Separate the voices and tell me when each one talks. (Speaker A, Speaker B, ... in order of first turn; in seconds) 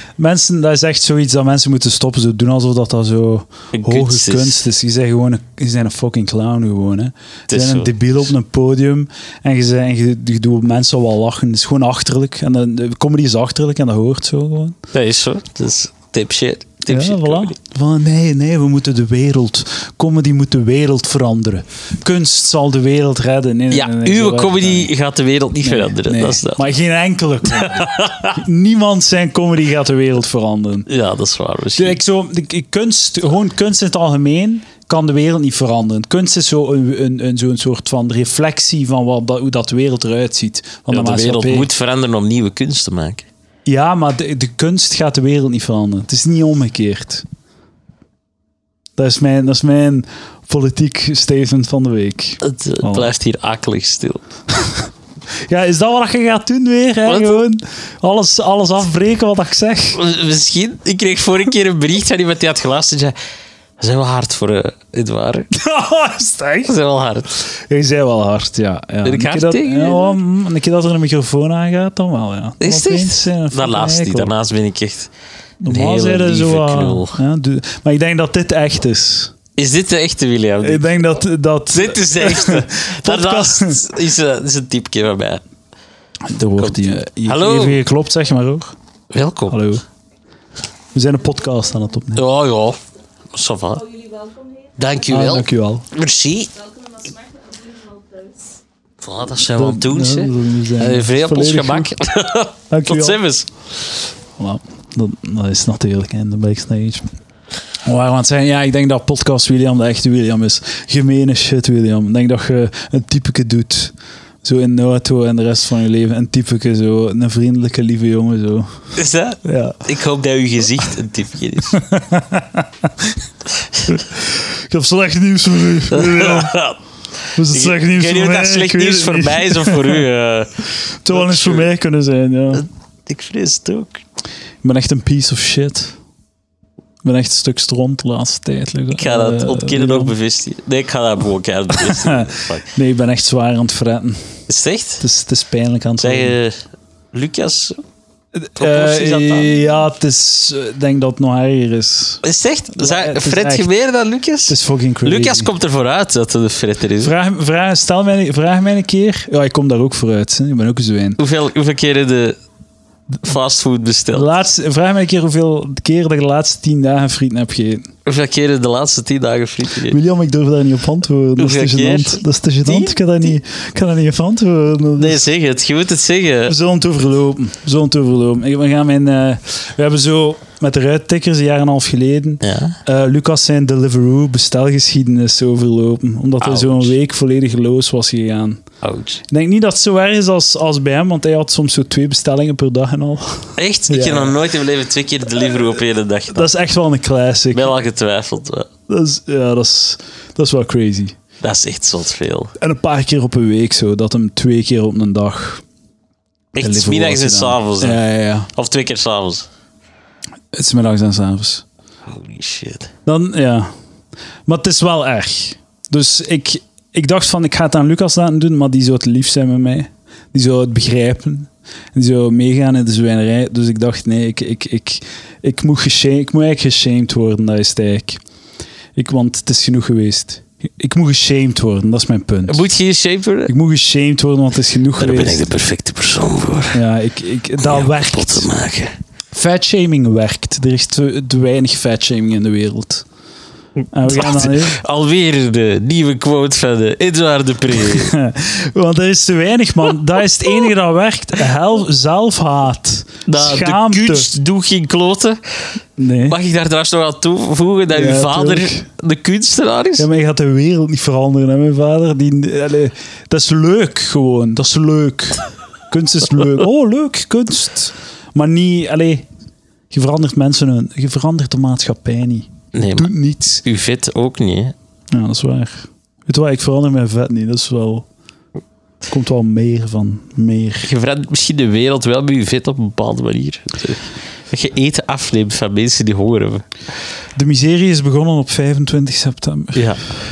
Speaker A: 0.2-14.8, 16.9-24.9, 25.6-30.9, 31.8-41.7, 43.7-47.2, 49.0-53.1, 55.5-60.0, 65.5-66.8, 67.5-74.3, 75.6-79.3, 80.6-83.8, 86.3-88.8, 89.5-89.8, 90.9-92.3, 95.1-95.8, 99.5-101.9, 102.7-103.2, 104.4-107.1, 107.8-119.8, 121.7-123.2, 123.9-126.6, 127.3-130.0, 131.0-132.7, 134.6-136.0, 137.0-140.2, 141.7-144.2, 145.0-146.4, 148.4-152.2, 152.7-153.7, 154.5-155.5, 157.0-161.2, 164.1-167.9, 169.9-175.2, 176.5-188.6, 189.3-194.4, 196.3-197.7, 198.9-201.2, 202.6-205.6, 206.6-208.5, 210.5-211.6, 213.1-213.7, 214.5-228.2, 228.9-232.7, 233.5-235.5, 236.7-238.5, 239.3-243.1, 243.9-244.8, 247.7-254.3, 256.0-256.4, 257.9-258.9, 260.0-269.3, 269.9-273.6, 275.1-278.1, 279.1-280.9, 287.4-290.0
Speaker B: 3.7-4.6, 7.5-7.9, 14.9-17.5, 23.7-26.6, 27.5-28.4, 30.9-32.0, 40.9-43.3, 52.4-54.2, 57.1-57.4, 59.9-63.1, 63.8-65.5, 66.7-67.3, 69.0-70.2, 72.6-75.1, 75.7-77.2, 79.6-80.8, 81.7-85.4, 86.6-87.8, 89.1-89.7, 92.2-92.8, 93.3-94.0, 94.8-96.6, 99.0-103.5, 119.0-121.8, 125.9-126.8, 127.5-131.7, 132.5-134.0, 138.9-142.7, 144.5-145.0, 146.0-146.6, 147.1-147.8, 148.6-149.6, 152.2-157.1, 161.2-162.4, 163.2-164.3, 168.1-170.0, 171.4-173.0, 175.0-176.6, 182.4-182.8, 186.4-186.9, 188.8-189.2, 193.6-196.5, 197.5-198.7, 201.4-202.5, 206.6-208.0, 208.5-209.5, 212.1-212.9, 232.5-233.5, 235.0-236.8, 237.6-239.0, 243.8-248.1, 253.3-255.4, 256.3-260.1, 272.7-273.1, 273.6-274.7, 280.8-286.7, 289.8-290.0